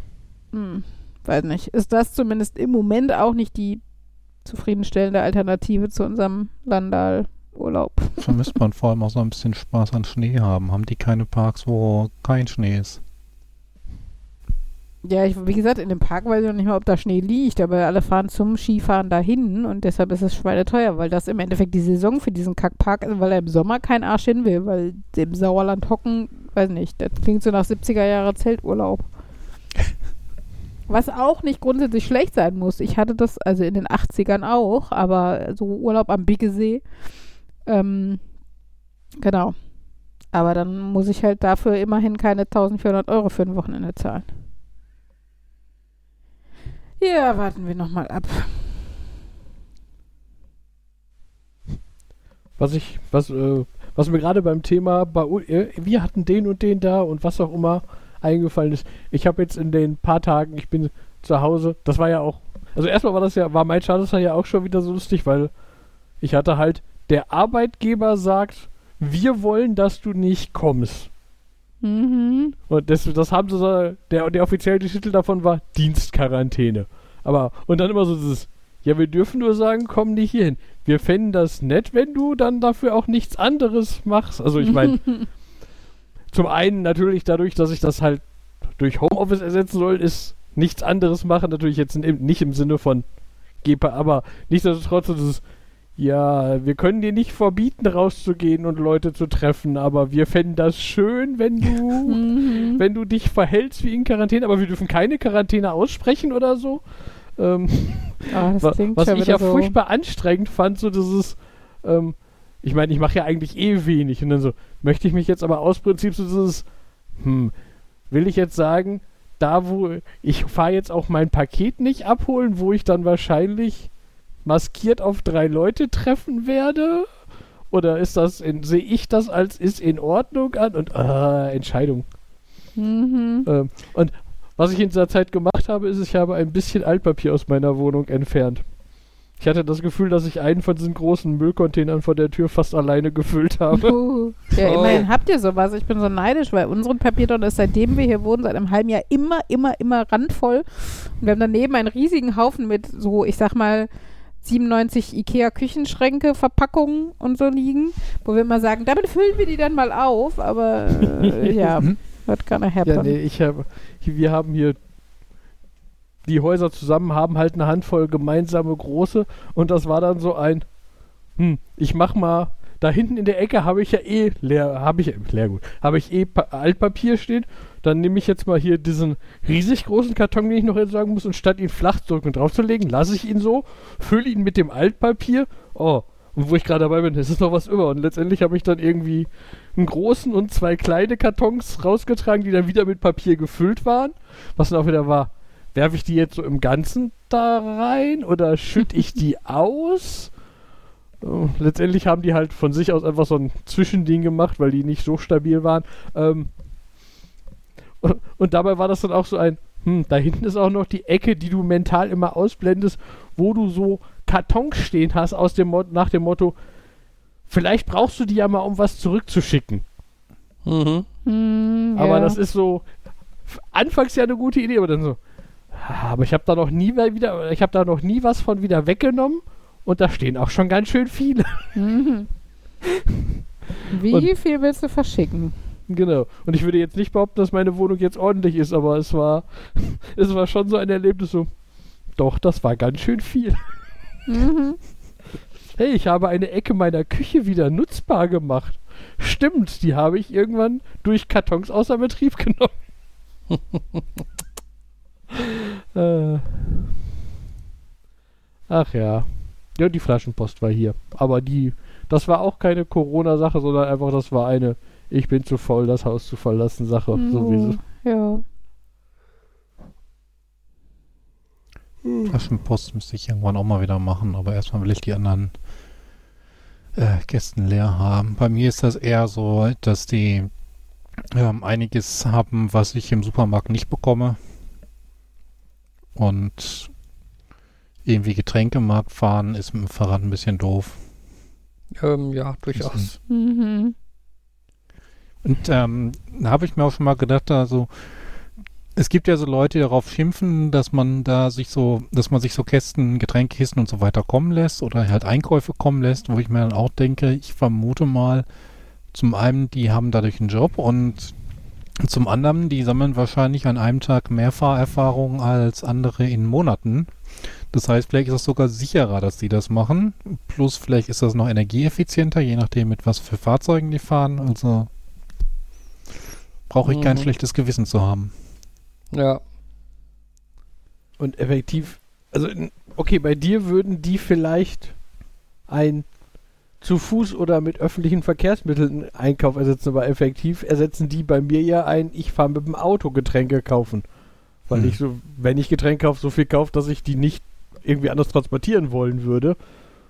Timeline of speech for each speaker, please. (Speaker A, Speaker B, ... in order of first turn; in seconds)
Speaker A: 0.5-3.8, 4.4-8.5, 15.0-29.1, 30.9-36.8, 37.6-38.2, 39.2-39.6, 40.3-44.3, 47.0-48.8, 71.8-72.6, 102.1-102.8, 108.3-109.8, 132.8-133.5, 143.7-153.9, 154.4-163.2, 221.3-222.4, 231.8-232.3, 233.9-235.6, 244.3-244.8, 267.1-268.4, 293.3-293.9
Speaker B: 8.2-13.0, 272.3-275.6, 276.9-280.5, 281.3-284.4, 286.1-286.9, 288.1-291.0, 292.7-293.1, 295.4-297.9, 299.0-308.5, 309.1-311.4, 312.0-317.1, 317.7-324.9, 326.7-328.3, 344.7-345.0
Speaker C: 52.6-65.5, 66.2-71.1, 72.7-85.4, 86.3-95.4, 96.0-117.5, 118.1-123.9, 124.5-127.2, 127.7-132.1, 133.5-138.7, 139.3-144.0, 162.8-164.8, 166.3-170.7, 171.3-200.4, 201.2-206.5, 208.0-216.6, 217.5-219.8, 222.0-222.9, 223.5-225.2, 225.7-231.8, 235.9-241.6, 242.1-243.8, 245.8-252.8, 255.9-256.9, 258.7-267.8, 331.2-335.0, 335.7-349.6
Speaker D: 144.6-145.1, 220.7-221.1, 292.0-293.2, 329.1-329.4